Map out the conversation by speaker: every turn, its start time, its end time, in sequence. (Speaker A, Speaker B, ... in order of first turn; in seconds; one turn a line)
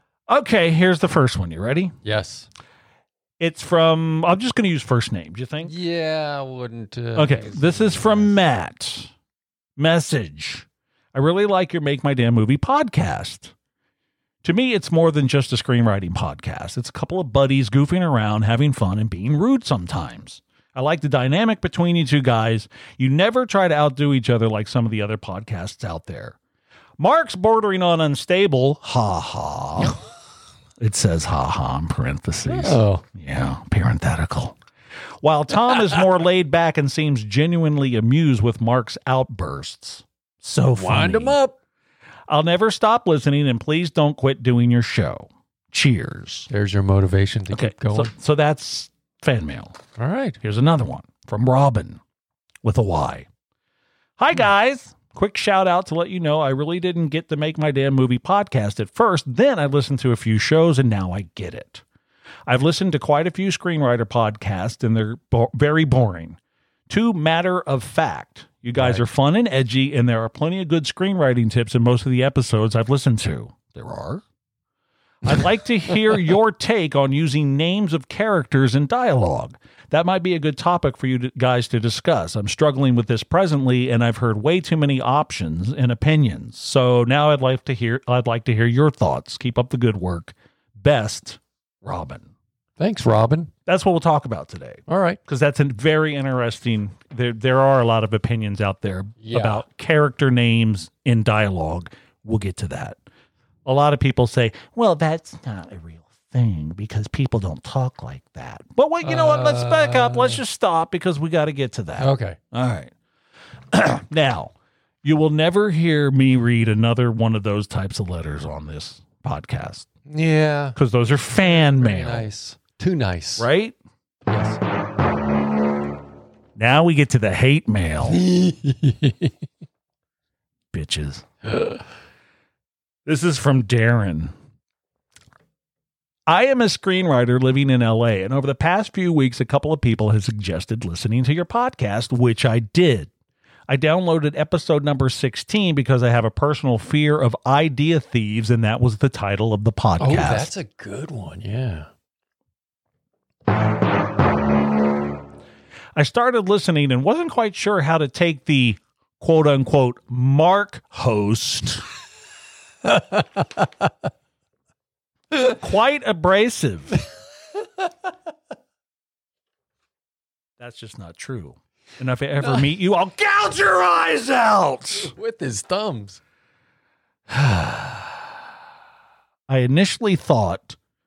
Speaker A: 0.3-1.9
Speaker B: 2.0-2.5
Speaker A: 3.4-5.7
Speaker B: 5.6-8.3
Speaker A: 7.2-9.1
Speaker A: 9.8-13.5
Speaker A: 14.4-26.4
Speaker A: 27.0-30.0
Speaker A: 30.8-34.6
Speaker B: 32.5-33.0
Speaker A: 35.2-41.4
Speaker B: 40.8-41.5
Speaker A: 42.3-46.5
Speaker B: 46.5-48.1
Speaker A: 47.5-49.8
Speaker B: 50.0-50.4
Speaker A: 50.4-52.0
Speaker A: 52.6-53.3
Speaker A: 54.2-61.8
Speaker A: 62.5-66.4
Speaker A: 66.9-74.2
Speaker B: 68.8-69.0
Speaker A: 75.2-92.3
Speaker B: 92.8-93.5
Speaker A: 93.7-103.0
Speaker B: 94.9-95.2
Speaker B: 99.2-99.6
Speaker A: 103.7-112.9
Speaker B: 109.0-110.4
Speaker B: 112.0-112.4
Speaker A: 113.7-119.9
Speaker B: 120.1-120.8
Speaker A: 120.8-122.3
Speaker B: 121.4-123.5
Speaker A: 123.4-123.8
Speaker B: 124.3-124.6
Speaker A: 126.6-128.2
Speaker B: 128.1-129.3
Speaker A: 130.7-131.3
Speaker B: 131.5-131.8
Speaker A: 133.1-134.3
Speaker A: 136.3-143.1
Speaker A: 143.7-150.5
Speaker B: 150.0-151.9
Speaker A: 155.9-161.8
Speaker B: 162.8-163.7
Speaker A: 165.4-166.9
Speaker A: 170.6-175.1
Speaker B: 174.9-176.2
Speaker A: 177.3-178.2
Speaker A: 179.5-180.8